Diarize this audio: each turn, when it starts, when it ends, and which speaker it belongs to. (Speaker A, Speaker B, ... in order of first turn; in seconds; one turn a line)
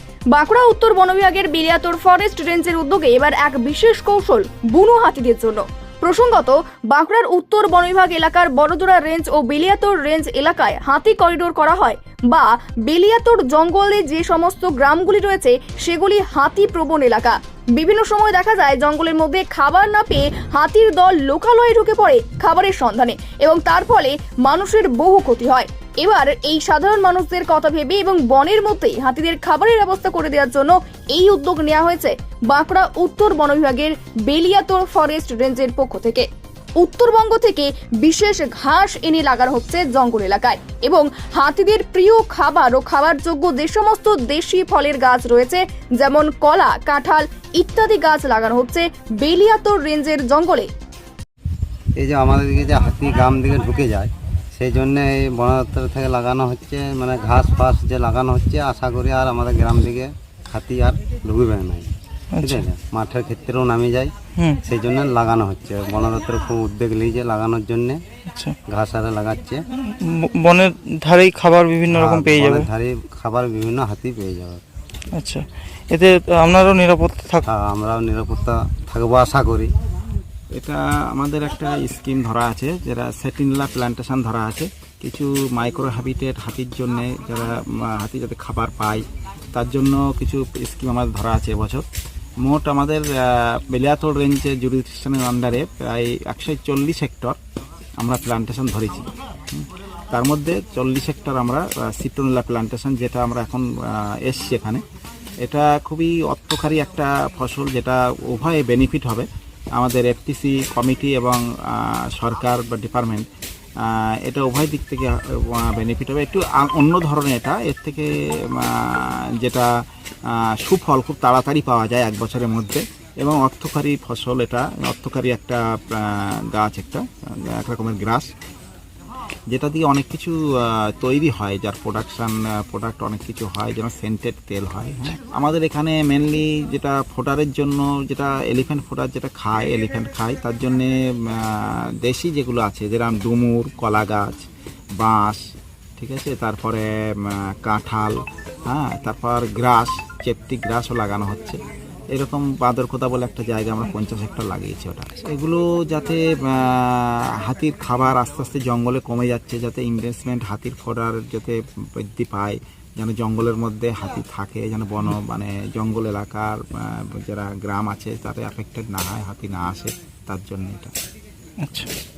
Speaker A: 0.3-36.2
Speaker A: 36.8-50.7
Speaker B: 52.0-64.1
Speaker C: 62.3-62.6
Speaker B: 64.6-68.0
Speaker B: 68.7-69.6
Speaker C: 69.9-72.7
Speaker B: 71.9-74.6
Speaker C: 75.1-77.4
Speaker B: 77.5-79.7
Speaker D: 80.5-91.8
Speaker D: 92.4-97.4
Speaker D: 98.0-104.8
Speaker D: 105.4-113.3
Speaker D: 113.8-119.7
Speaker D: 120.3-128.3
Speaker D: 129.5-144.5
Speaker D: 145.0-145.4
Speaker D: 146.0-148.2
Speaker D: 148.7-151.6
Speaker D: 152.1-170.9
Speaker C: 171.6-171.9